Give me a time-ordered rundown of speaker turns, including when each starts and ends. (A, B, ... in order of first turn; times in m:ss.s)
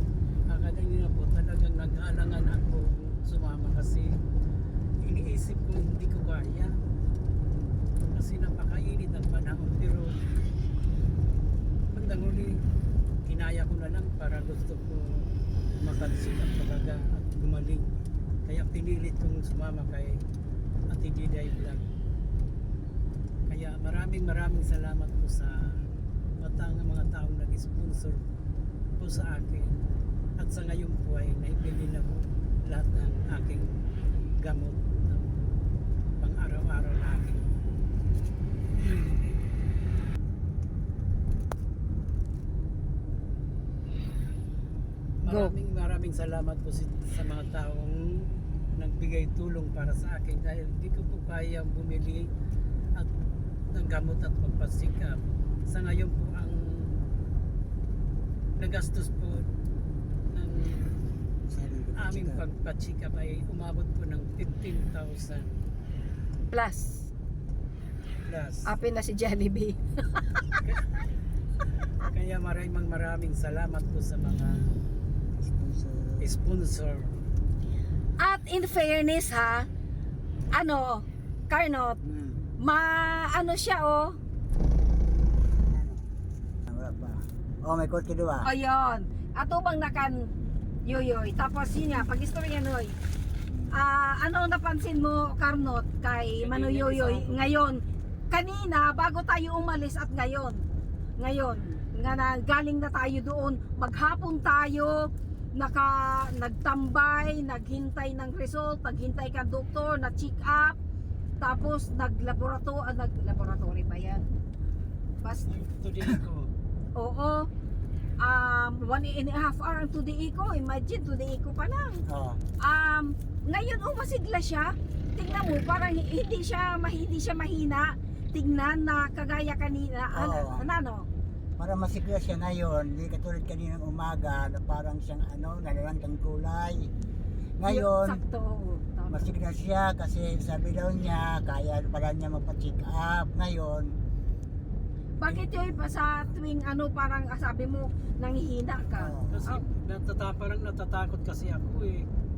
0:00.5-0:04.1 A
0:05.0-0:06.7 A
0:08.1-0:10.1 A
0:11.9-0:12.6 A
0:13.2-0:15.2 A
0:15.8-0:20.2 A
0:20.9-0:21.9 A
0:23.5-0:25.5 A
0:26.4-0:28.3 A
0:29.0-0:29.8 A
0:30.4-0:33.7 A
0:34.4-0:35.4 A
0:36.2-0:37.5 A
0:38.8-0:39.2 A
0:45.2-0:48.0 A
0:45.2-0:45.5 B
0:48.8-0:52.2 A
0:53.7-0:57.0 A
0:58.6-0:59.5 A
1:00.3-1:01.0 A
1:01.5-1:02.4 C
1:02.0-1:05.6 A
1:06.5-1:07.1 B
1:08.3-1:08.7 A
1:08.7-1:10.6 B
1:10.6-1:10.9 A
1:12.1-1:14.6 A
1:15.4-1:16.3 C
1:16.2-1:17.2 A
1:18.2-1:19.7 B
1:20.6-1:22.0 B
1:22.0-1:22.4 C
1:22.6-1:24.2 B
1:25.6-1:26.0 C
1:26.7-1:28.5 C
1:28.4-1:30.3 B
1:30.9-1:33.0 B
1:33.5-1:33.7 C
1:33.7-1:40.6 B
1:36.4-1:37.5 A
1:41.2-1:50.8 B
1:51.4-1:54.2 B
1:55.2-1:55.5 B
1:55.5-1:56.5 A
1:57.0-1:57.5 B
1:58.2-2:02.0 B
2:02.1-2:02.4 C
2:02.6-2:11.1 B
2:10.1-2:10.7 C
2:11.6-2:16.9 C
2:17.6-2:18.2 C
2:17.6-2:19.3 B
2:19.1-2:23.9 C
2:25.2-2:29.6 B
2:25.2-2:25.5 C
2:28.9-2:29.6 C
2:29.3-2:32.1 A